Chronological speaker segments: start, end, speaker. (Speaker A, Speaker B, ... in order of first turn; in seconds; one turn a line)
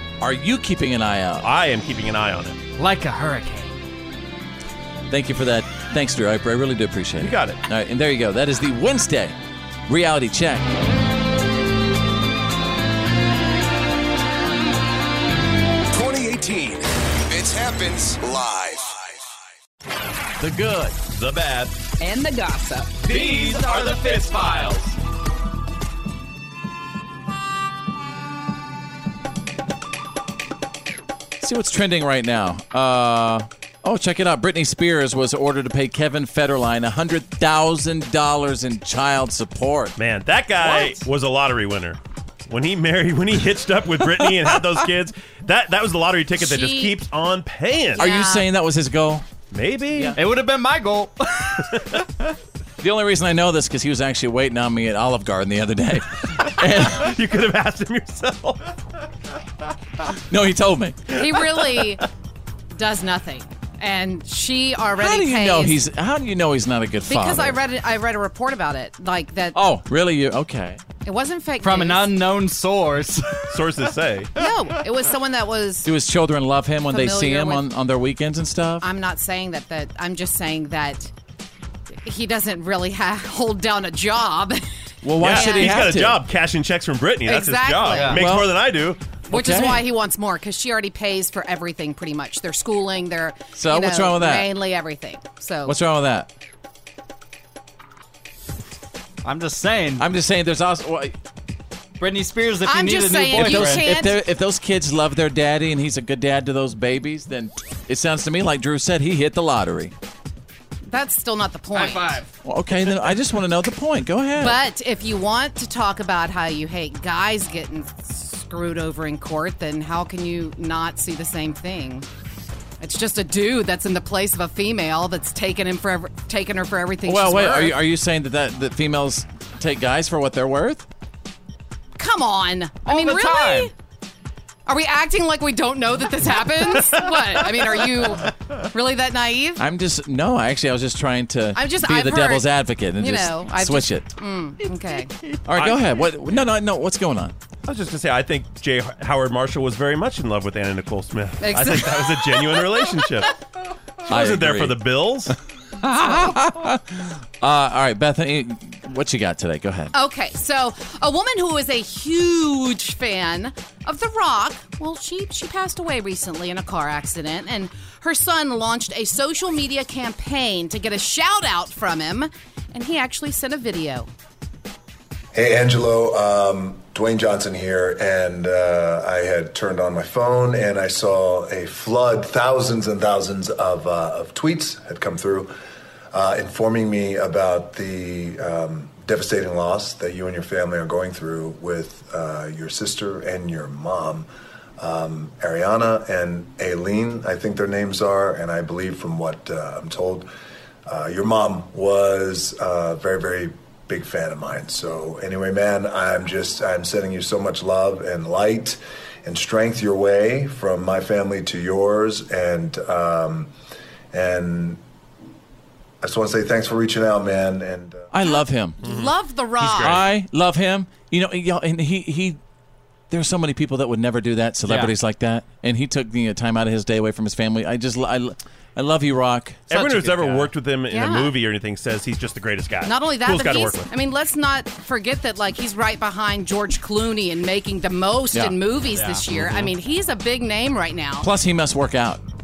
Speaker A: 0.2-1.4
Speaker B: 1.4-2.5
Speaker C: 2.8-3.7
Speaker A: 5.1-9.3
Speaker B: 7.2-7.6
Speaker A: 9.9-10.7
Speaker D: 15.9-19.3
Speaker A: 20.4-21.0
Speaker B: 21.1-21.7
Speaker B: 23.0-24.8
Speaker C: 23.1-24.6
Speaker A: 31.4-40.0
Speaker B: 40.0-48.0
Speaker E: 46.4-47.0
Speaker E: 48.0-48.5
Speaker A: 48.0-49.2
Speaker B: 49.5-50.2
Speaker C: 50.1-51.7
Speaker A: 52.8-57.1
Speaker B: 56.8-58.7
Speaker A: 60.2-61.1
Speaker E: 61.1-62.0
Speaker E: 62.7-65.8
Speaker A: 65.0-67.6
Speaker E: 67.1-69.6
Speaker A: 69.5-70.8
Speaker E: 71.0-72.1
Speaker C: 71.6-73.4
Speaker B: 73.5-74.3
Speaker E: 74.4-75.9
Speaker A: 75.8-78.9
Speaker E: 76.9-77.6
Speaker E: 78.8-81.1
Speaker E: 82.0-84.6
Speaker A: 85.0-86.2
Speaker B: 85.2-89.0
Speaker E: 85.2-85.9
Speaker E: 87.2-88.2
Speaker C: 87.9-88.2
Speaker A: 88.1-88.6
Speaker A: 89.3-89.8
Speaker E: 89.3-95.8
Speaker A: 93.5-94.5
Speaker A: 95.6-96.3
Speaker C: 99.2-100.0
Speaker A: 100.0-101.1
Speaker C: 102.0-103.9
Speaker E: 102.6-104.2
Speaker A: 103.3-109.9
Speaker E: 110.8-112.2
Speaker C: 111.7-112.3
Speaker A: 112.4-114.6
Speaker E: 114.4-122.1
Speaker E: 122.8-127.8
Speaker A: 127.0-130.8
Speaker E: 132.0-133.7
Speaker C: 132.8-133.7
Speaker E: 134.7-139.6
Speaker A: 139.6-144.1
Speaker E: 141.5-145.1
Speaker A: 145.4-147.3
Speaker B: 145.5-145.8
Speaker B: 147.7-153.3
Speaker E: 151.4-152.7
Speaker B: 154.0-155.3
Speaker A: 154.1-159.9
Speaker E: 159.9-174.1
Speaker F: 175.3-185.5
Speaker F: 186.1-194.3
Speaker F: 194.8-200.3
Speaker F: 200.8-213.5
Speaker F: 214.1-214.8
Speaker F: 216.0-218.1
Speaker A: 218.1-218.8
Speaker E: 218.2-220.0
Speaker B: 218.8-220.1
Speaker A: 219.8-222.4
Speaker A: 223.1-229.7
Speaker C: 224.7-224.9
Speaker B: 229.7-233.9
Speaker C: 229.7-230.5
Speaker E: 230.9-231.3
Speaker E: 232.8-241.3
Speaker A: 238.3-238.6
Speaker C: 238.9-239.7
Speaker A: 241.2-242.2